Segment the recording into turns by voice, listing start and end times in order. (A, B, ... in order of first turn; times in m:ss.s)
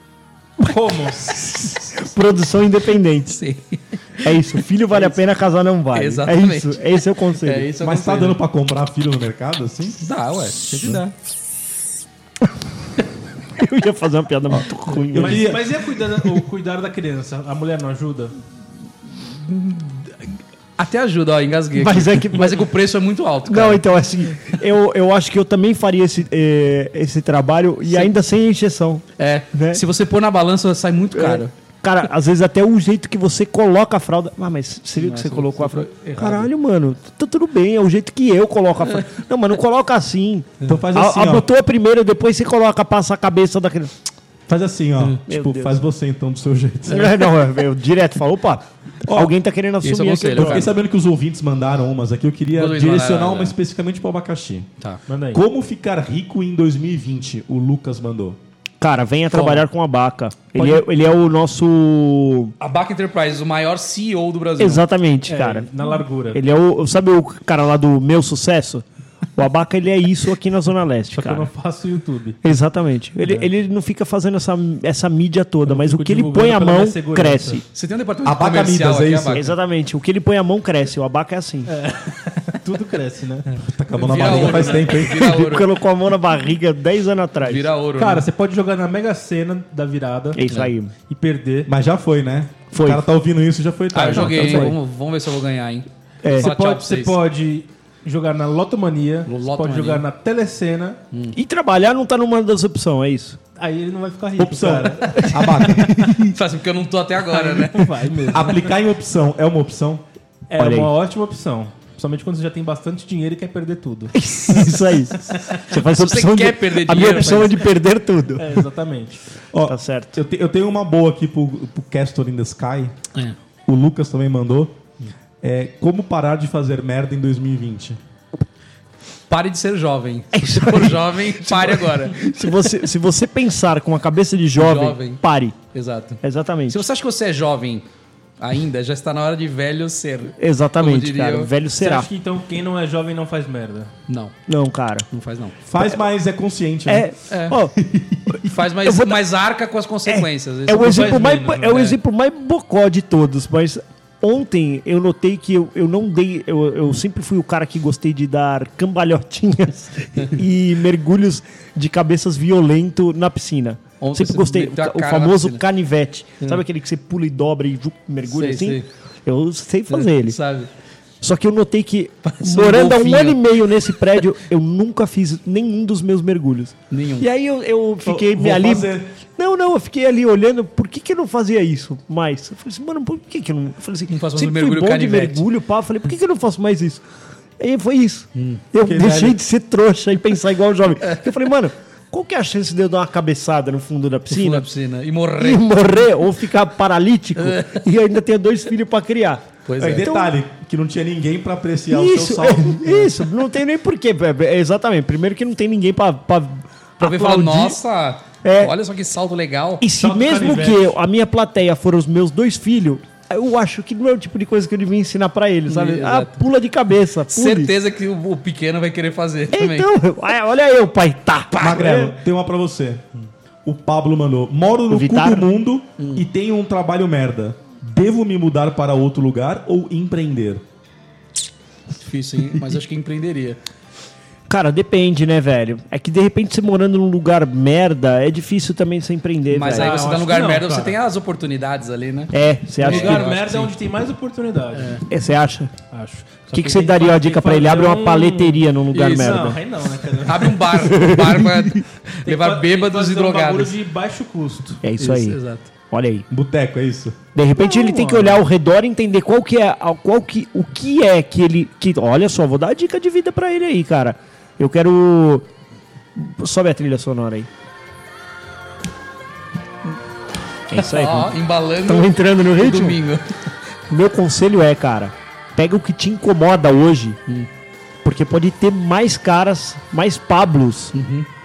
0:00.6-0:01.5 A
0:01.3-0:03.4 B
0:03.3-0:04.4 C
0:04.2-0:07.7 B
0:05.9-0:08.4 C
0:07.8-0:10.0 D
0:10.0-0:11.1 C
0:13.6-0:15.6 B
0:15.1-0:15.7 D
0:15.1-0:18.3 A
0:19.2-0:23.9 C
0:21.7-0:22.7 B
0:23.5-0:29.8 B
0:29.2-0:31.5 C
0:31.1-0:44.0 B
0:35.0-0:36.5 C
0:40.6-0:41.5 D
0:44.5-0:47.2 D
0:45.3-0:45.8 B
0:46.9-0:50.7 B
0:49.0-0:49.3 D
0:49.8-0:50.7 C
0:50.4-0:54.7 D
0:52.5-0:53.6 C
0:55.1-0:55.4 A
0:55.3-0:58.4 D
0:58.8-1:02.6 B
0:59.3-0:59.7 C
1:00.6-1:00.8 A
1:02.6-1:04.8 C
1:04.6-1:05.7 B
1:05.3-1:06.4 A
1:06.3-1:08.8 B
1:09.4-1:11.5 B
1:11.1-1:12.4 A
1:12.4-1:17.6 B
1:15.7-1:17.6 A
1:17.7-1:19.5 C
1:18.2-1:19.5 D
1:19.3-1:21.7 B
1:21.7-1:24.9 A
1:23.6-1:25.3 D
1:24.0-1:25.7 C
1:25.0-1:27.7 B
1:27.4-1:28.3 C
1:28.0-1:30.4 A
1:30.4-1:30.9 B
1:31.1-1:31.7 A
1:31.7-1:34.8 D
1:32.7-1:33.1 B
1:33.9-1:37.2 C
1:34.0-1:34.8 B
1:36.2-1:36.5 B
1:36.3-1:41.0 A
1:39.3-1:40.0 C
1:41.4-1:43.4 B
1:43.6-1:45.8 A
1:44.4-1:46.2 D
1:45.1-1:46.3 B
1:46.3-1:47.9 C
1:47.3-1:48.8 A
1:48.3-1:50.0 D
1:50.5-1:54.2 A
1:50.6-1:50.9 B
1:54.1-1:58.6 B
1:55.7-1:57.7 C
1:58.4-1:59.2 A
1:59.5-2:03.0 D
1:59.6-2:00.2 B
2:03.7-2:04.8 D
2:05.4-2:08.0 D
2:09.3-2:12.2 C
2:10.3-2:15.6 B
2:14.6-2:15.2 C
2:15.7-2:17.8 C
2:16.2-2:16.8 B
2:18.4-2:21.5 C
2:20.4-2:22.1 B
2:21.8-2:23.9 A
2:24.1-2:24.3 C
2:24.5-2:25.1 B
2:25.1-2:25.6 C
2:25.7-2:27.1 D
2:25.8-2:26.0 B
2:26.9-2:27.8 B
2:27.3-2:27.6 C
2:27.8-2:28.4 D
2:28.4-2:31.9 C
2:28.8-2:29.2 B
2:30.1-2:50.4 B
2:30.8-2:31.9 A
2:44.0-2:45.6 C
2:48.3-2:48.9 C
2:49.9-2:50.7 C
2:51.2-3:07.0 B
2:52.2-2:53.4 C
2:56.9-2:57.3 C
2:58.0-2:59.1 D
3:04.1-3:05.5 C
3:07.6-3:14.7 B
3:08.4-3:08.6 C
3:08.8-3:09.4 D
3:14.3-3:15.8 C
3:15.4-3:20.4 B
3:17.4-3:17.8 C
3:19.7-3:20.2 C
3:19.8-3:23.1 D
3:21.9-3:27.8 B
3:27.0-3:29.8 C
3:28.4-3:28.8 B
3:29.8-3:37.7 B
3:30.0-3:30.9 A
3:35.7-3:36.4 C
3:37.3-3:39.9 C
3:39.5-3:42.2 B
3:41.6-3:43.0 D
3:43.6-3:50.6 D
3:44.9-3:45.5 B
3:46.0-3:46.2 C
3:52.0-3:53.6 C
3:54.5-4:00.0 B
3:59.5-4:03.7 C
3:59.7-4:01.0 A
4:02.3-4:03.3 B
4:02.8-4:05.0 A
4:04.8-4:05.0 C
4:05.1-4:05.7 B
4:05.9-4:10.6 A
4:06.5-4:09.6 B
4:08.9-4:09.4 C
4:10.3-4:13.7 C
4:10.6-4:11.8 B
4:12.2-4:14.8 A
4:14.8-4:16.3 B
4:15.0-4:15.7 C
4:16.3-4:17.2 D
4:17.4-4:25.5 B
4:17.6-4:18.4 A
4:26.2-4:27.5 B
4:30.7-4:33.0 B
4:30.7-4:33.3 C
4:33.9-4:37.2 B
4:38.0-4:40.9 B
4:40.9-4:41.3 C